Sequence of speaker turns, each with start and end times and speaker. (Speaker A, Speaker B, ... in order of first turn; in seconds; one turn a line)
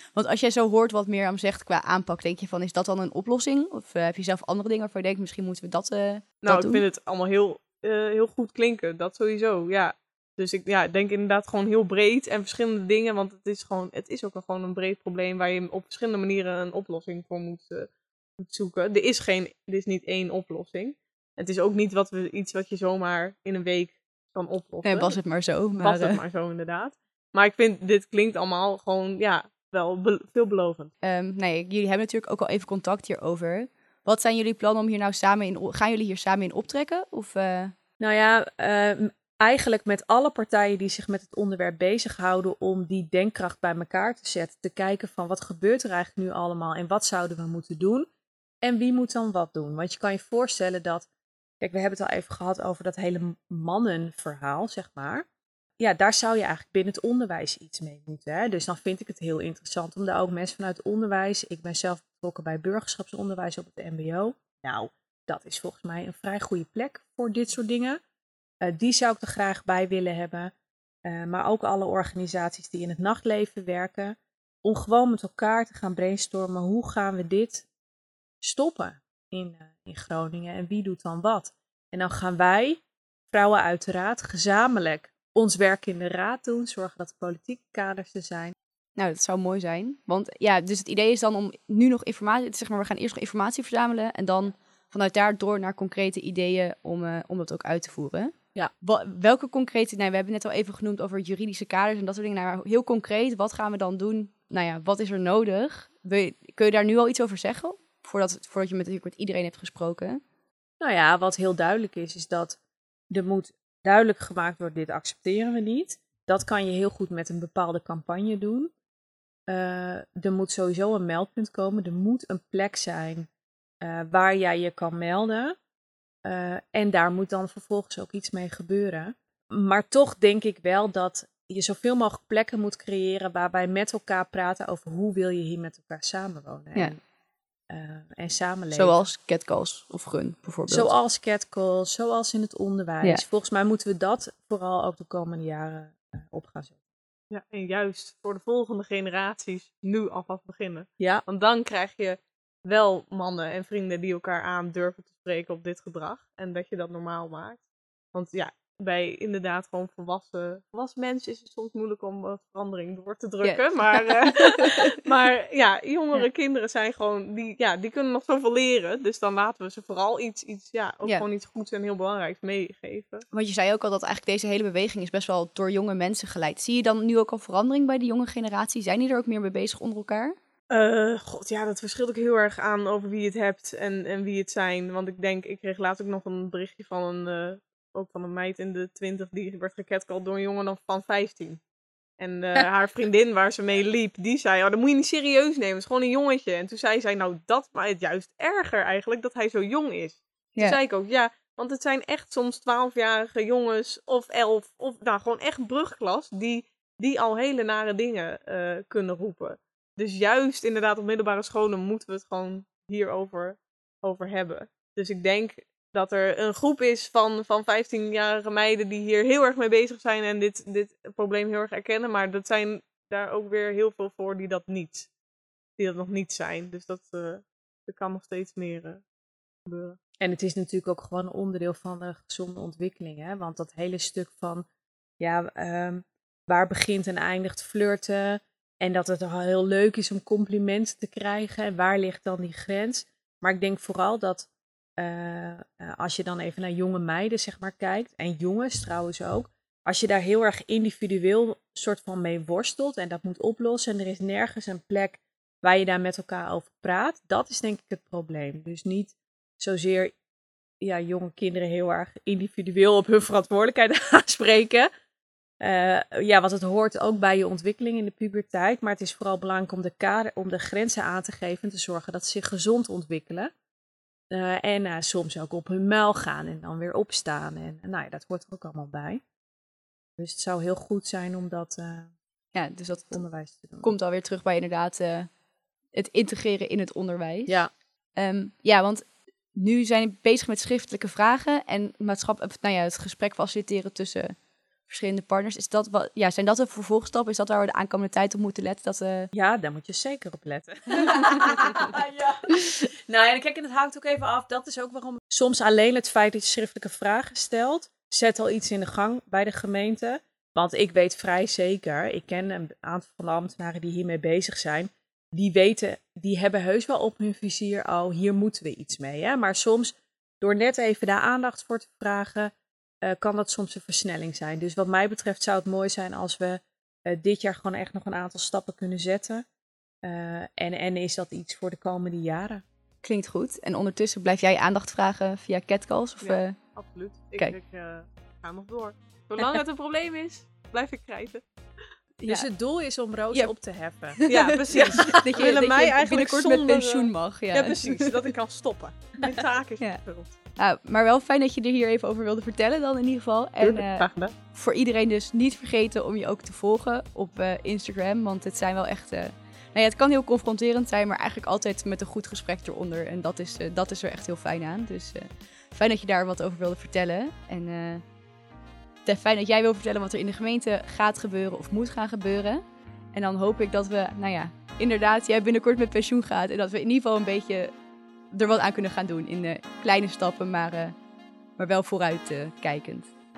Speaker A: 0.2-6.8
Speaker B: 6.4-25.2
Speaker A: 24.8-26.2
Speaker B: 25.8-30.9
Speaker A: 31.0-37.7
Speaker C: 38.0-48.1
Speaker C: 48.6-51.1
Speaker C: 51.6-55.3
Speaker C: 55.8-68.0
Speaker C: 68.6-70.5
Speaker C: 71.1-77.7
Speaker C: 78.4-88.5
Speaker A: 89.0-110.2
Speaker C: 110.8-112.6
Speaker C: 113.1-118.7
Speaker C: 119.5-123.3
Speaker C: 123.8-125.5
Speaker C: 126.2-137.0
Speaker C: 137.7-139.1
Speaker A: 138.7-140.9
Speaker C: 140.7-146.8
Speaker B: 147.3-157.6
Speaker C: 151.0-151.2
Speaker B: 158.1-173.3
Speaker A: 163.4-164.9
Speaker A: 173.3-180.4
Speaker B: 180.7-191.6
Speaker B: 192.2-225.1
Speaker B: 225.8-229.0
Speaker B: 229.7-230.0
Speaker C: 230.2-234.7
Speaker C: 235.2-260.1
Speaker C: 260.8-264.9
Speaker C: 265.6-273.5
Speaker C: 274.3-279.2
Speaker C: 280.2-282.1
Speaker A: 282.5-283.2
Speaker C: 283.1-283.9
Speaker A: 283.8-285.3
Speaker A: 285.9-287.6
Speaker A: 288.2-294.4
Speaker A: 294.9-299.3
Speaker C: 299.3-322.5
Speaker A: 301.1-301.8
Speaker C: 323.0-329.5
Speaker C: 330.0-332.6
Speaker A: 333.0-336.6
Speaker B: 336.2-341.4
Speaker C: 342.2-345.2
Speaker A: 344.2-348.2
Speaker B: 344.3-350.4
Speaker A: 350.6-368.0
Speaker B: 353.6-354.3
Speaker A: 369.1-377.7
Speaker A: 378.3-380.9
Speaker A: 381.6-383.1